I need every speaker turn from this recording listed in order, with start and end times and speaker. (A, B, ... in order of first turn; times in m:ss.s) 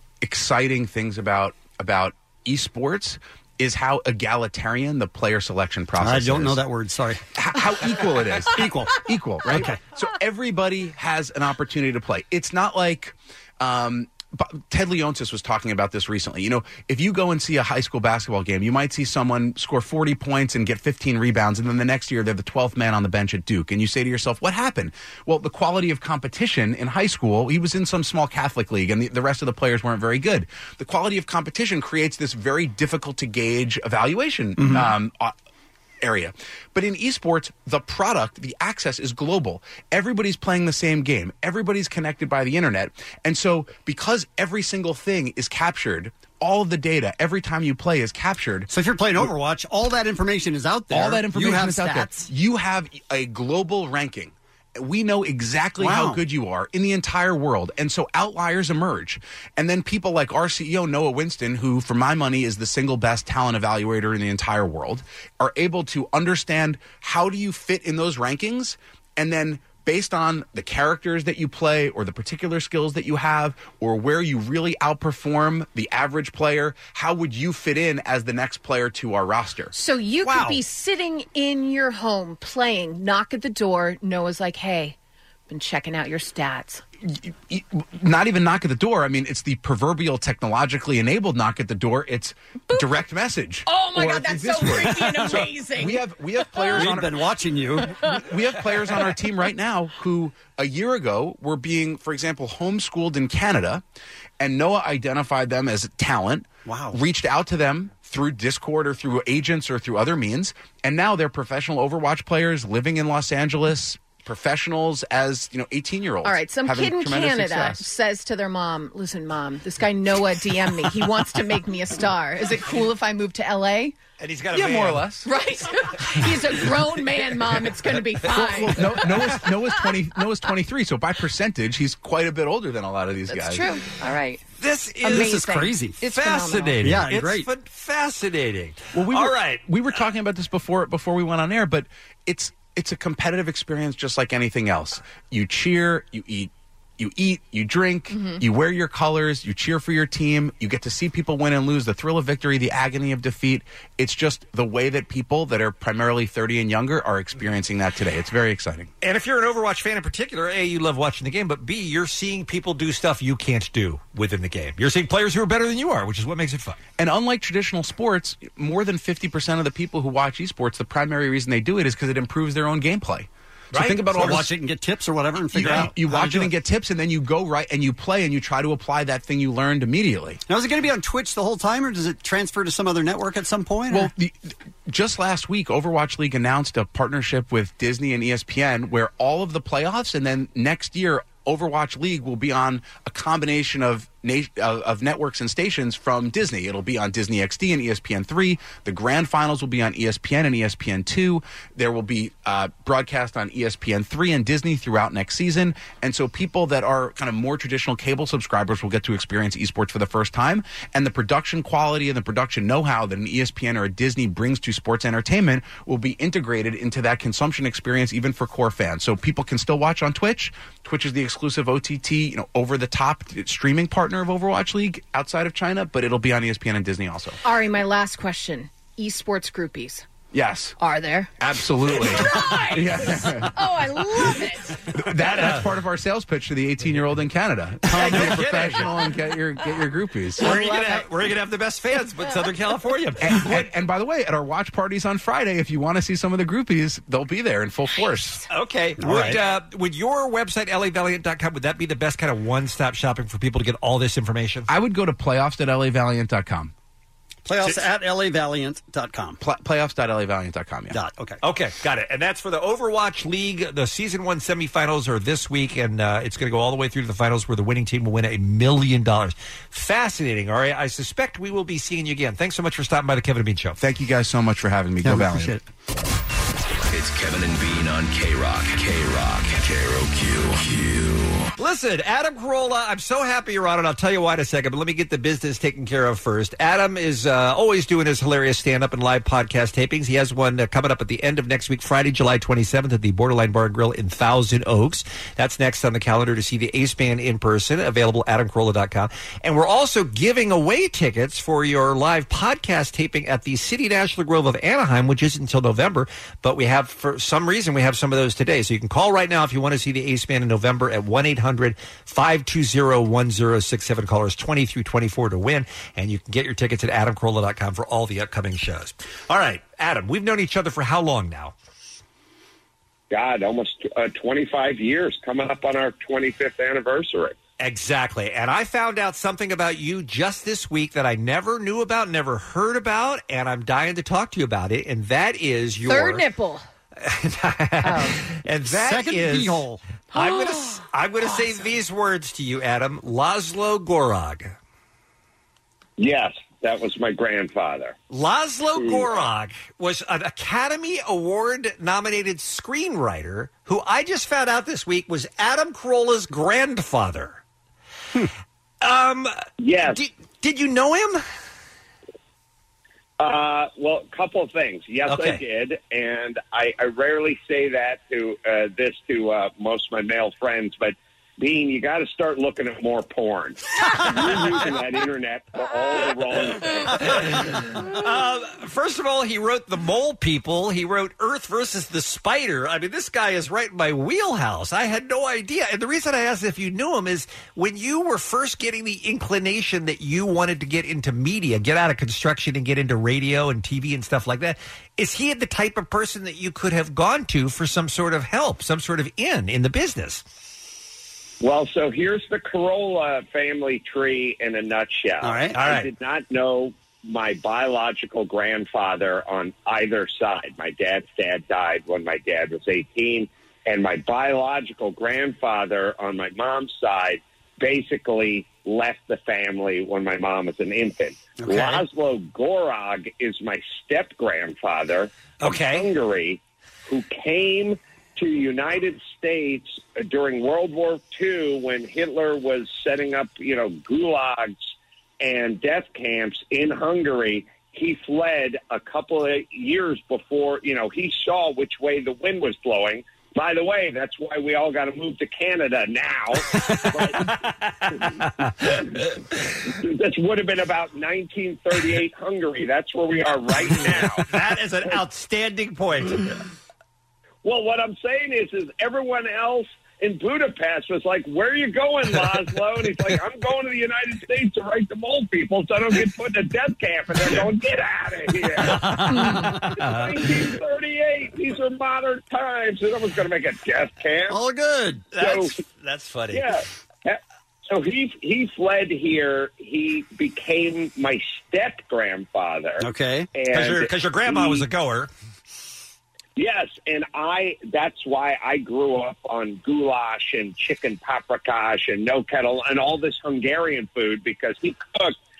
0:00.2-0:06.6 A
0:06.0-0:07.2 B
0:07.3-0:35.3 A
0:08.5-0:09.8 B
0:34.6-0:34.9 B
0:36.0-0:48.7 A
0:48.7-0:52.3 B
0:50.9-1:19.7 A
0:55.8-0:56.2 B
1:19.7-1:25.0 C
1:20.3-1:20.5 A
1:25.5-1:26.8 C
1:27.0-1:37.1 A
1:33.6-1:36.9 C
1:36.7-1:38.0 B
1:37.8-1:38.2 C
1:38.0-1:43.8 A
1:44.4-1:57.9 A
1:46.6-1:47.0 B
1:56.2-2:04.0 C
2:04.2-2:05.1 D
2:04.5-2:05.3 A
2:05.2-2:09.5 C
2:08.3-2:13.8 A
2:13.3-2:14.4 C
2:14.6-2:15.4 D
2:15.0-2:16.8 C
2:15.0-2:16.0 B
2:16.0-2:19.7 D
2:16.8-2:17.5 B
2:18.9-2:38.9 A
2:28.1-2:28.4 C
2:39.0-2:46.8 D
2:47.0-2:54.5 A
2:53.7-2:54.3 D
2:53.8-2:56.5 B
2:55.5-3:00.4 A
3:00.5-3:04.1 B
3:03.9-3:47.4 A
3:47.4-3:50.0 C
3:50.3-3:50.8 A
3:50.8-3:51.3 C
3:51.4-3:53.6 A
3:51.9-3:54.9 C
3:54.9-4:00.8 A
3:55.4-3:55.6 D
3:57.9-3:58.7 B
3:57.9-3:58.9 D
4:00.4-4:01.0 C
4:00.4-4:03.7 D
4:03.2-4:08.4 A
4:08.5-4:14.7 D
4:09.0-4:09.4 B
4:14.7-4:16.7 A
4:17.4-4:19.4 B
4:19.4-4:21.0 A
4:20.9-4:21.4 B
4:21.4-4:33.8 D
4:33.8-4:35.6 A
4:35.0-4:35.6 B
4:36.9-4:41.5 E
4:41.6-5:21.5 D
5:23.1-5:27.3 F
5:27.6-5:36.2 D
5:35.9-5:36.6 C
5:37.0-5:44.5 D
5:37.8-5:38.2 C
5:38.6-5:39.8 B
5:40.1-5:41.7 C
5:46.0-5:48.0 F
5:48.1-5:57.4 D
5:48.8-5:49.2 F
5:58.8-6:01.2 D
5:59.6-6:00.0 F
6:03.2-6:17.0 F
6:05.1-6:05.4 D
6:17.0-6:40.2 D
6:41.4-7:14.6 F
6:45.2-6:45.6 B
6:45.5-6:45.9 D
7:01.4-7:01.8 B
7:05.4-7:05.9 D
7:15.2-7:27.3 F
7:27.0-7:28.7 D
7:29.6-7:34.2 F
7:34.2-7:36.4 D
7:37.4-7:54.4 F
7:48.8-7:49.5 B
7:48.9-7:49.9 D
7:54.3-7:55.1 B
7:55.1-7:56.5 D
7:55.2-7:55.6 F
7:56.3-8:04.6 F
8:02.8-8:03.3 B
8:03.5-8:05.1 D
8:06.4-8:15.1 F